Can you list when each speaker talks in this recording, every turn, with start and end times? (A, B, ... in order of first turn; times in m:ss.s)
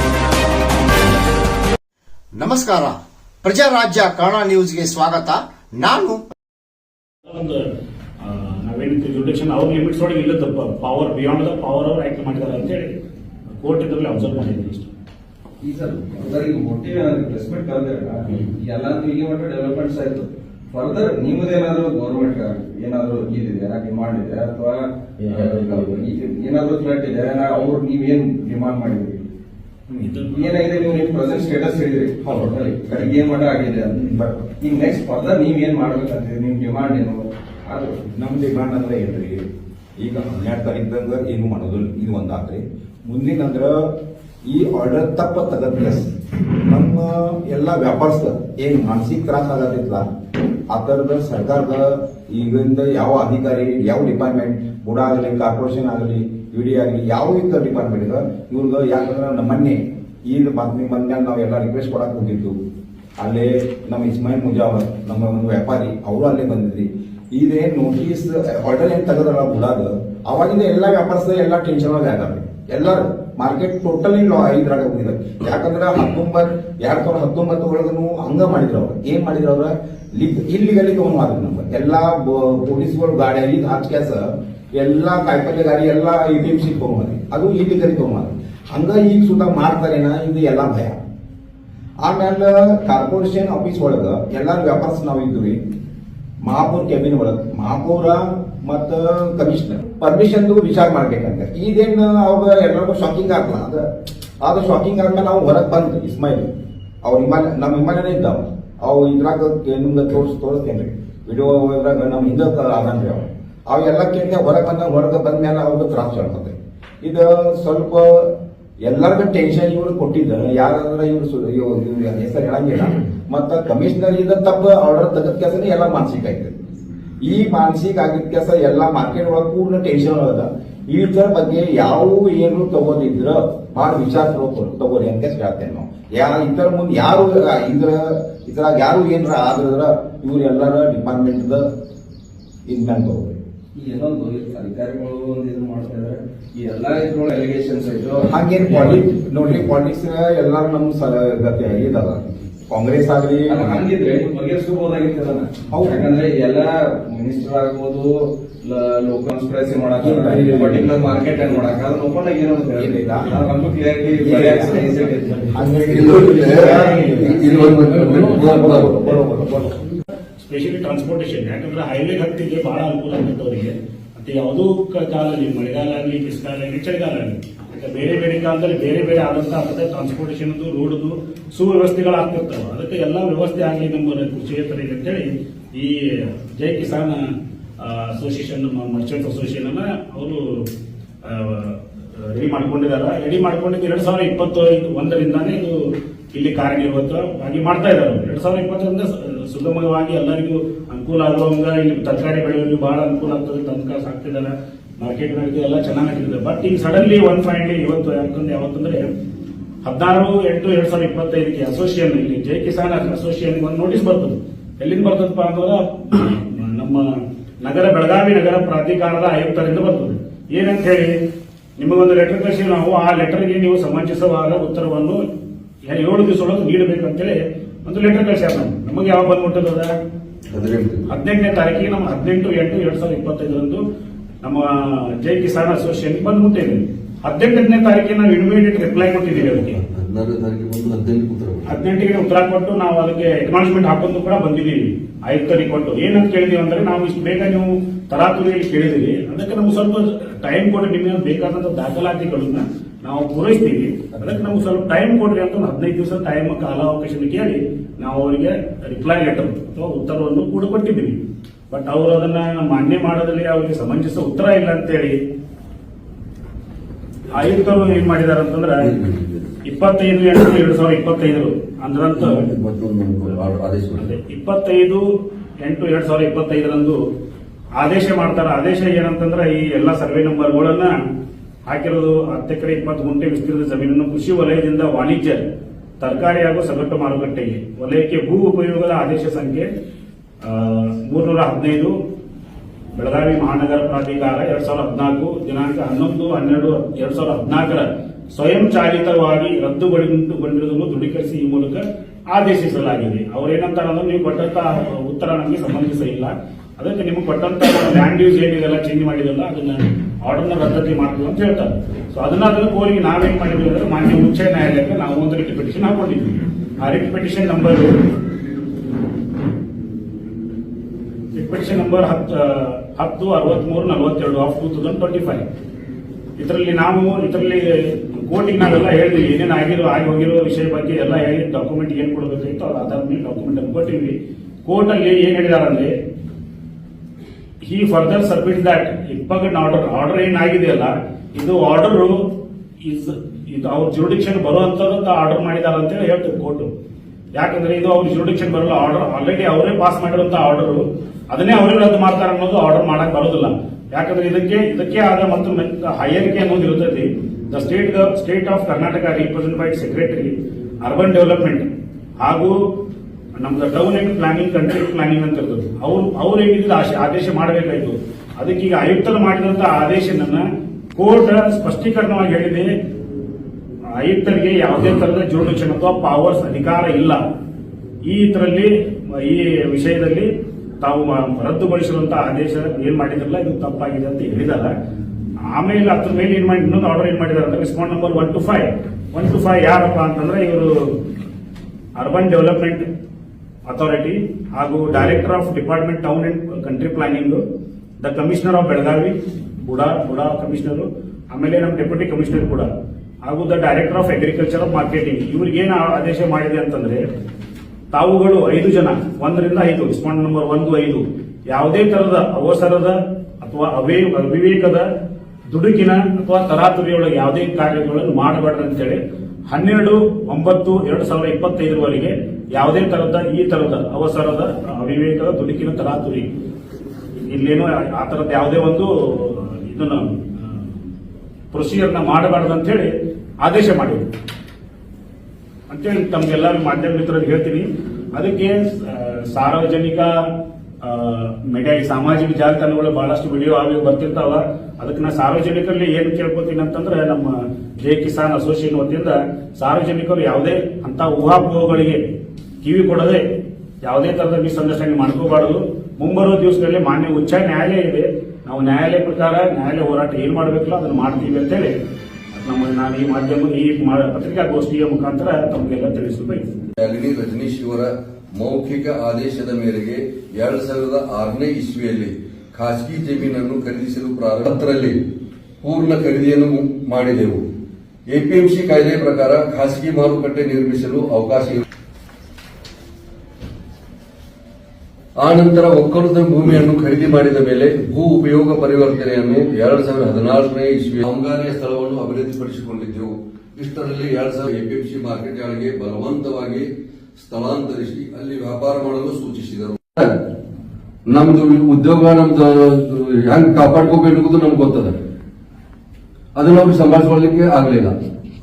0:02.3-0:06.3 A
0:07.2-0:07.6 B
0:08.2-0:13.0 B
0:13.6-0:14.9 B
0:15.6-0:29.2 C
0:25.2-0:26.0 D
0:30.3-0:34.0 C
0:32.2-0:33.1 E
0:33.9-0:34.4 E
0:34.6-0:38.0 C
0:38.1-0:39.4 E
0:40.0-0:43.9 E
0:44.4-0:46.1 E
0:46.6-0:50.0 E
0:50.7-1:02.6 E
1:03.2-1:31.0 E
1:32.0-1:35.6 E
1:36.4-1:43.8 E
1:44.4-1:46.5 E
1:47.0-1:58.3 E
1:58.8-2:06.5 E
2:07.2-2:21.6 E
2:22.7-2:23.4 E
2:23.7-2:29.0 C
2:28.3-2:33.8 E
2:33.5-2:38.1 C
2:35.7-2:36.0 E
2:38.6-2:45.5 C
2:40.0-2:40.8 E
2:42.7-2:43.3 E
2:44.2-2:44.8 E
2:45.5-2:49.8 E
2:45.9-2:49.0 D
2:46.4-2:47.8 C
2:50.4-3:10.7 B
3:11.2-3:15.8 B
3:16.3-3:29.1 B
3:29.8-3:41.2 B
3:41.8-3:45.2 B
3:45.8-3:49.9 B
3:50.5-3:51.1 D
3:51.1-3:53.8 B
3:54.4-3:59.8 B
3:59.4-4:01.7 D
4:01.7-4:25.2 B
4:27.3-4:28.9 B
4:28.8-4:29.5 D
4:29.6-4:32.4 B
4:32.2-4:34.1 D
4:34.0-4:35.0 B
4:35.6-4:37.0 B
4:37.8-4:41.0 B
4:41.7-4:45.4 B
4:46.0-4:49.7 B
4:50.4-4:51.9 B
4:52.9-5:17.9 B
5:21.3-5:25.4 B
5:26.4-5:35.9 B
5:37.6-5:42.2 B
5:42.8-5:46.7 B
5:47.3-6:01.6 B
6:02.2-6:02.6 B
6:03.4-6:10.4 B
6:10.9-6:12.7 B
6:14.0-6:17.2 B
6:18.0-6:20.3 B
6:20.8-6:24.7 B
6:25.5-6:30.9 B
6:32.0-6:32.8 B
6:33.7-6:37.4 B
6:38.0-6:42.7 B
6:43.2-6:47.0 B
6:47.9-6:54.8 B
6:55.5-7:06.3 B
7:07.2-7:10.6 B
7:11.5-7:12.9 B
7:13.4-7:14.1 B
7:15.7-7:20.1 B
7:20.8-7:32.0 B
7:32.6-7:33.2 B
7:33.8-7:41.8 B
7:42.4-7:46.4 B
7:46.8-7:55.0 D
7:55.6-7:57.4 D
7:58.1-8:01.6 D
8:05.2-8:20.1 D
8:21.1-8:25.0 D
8:26.3-8:27.9 D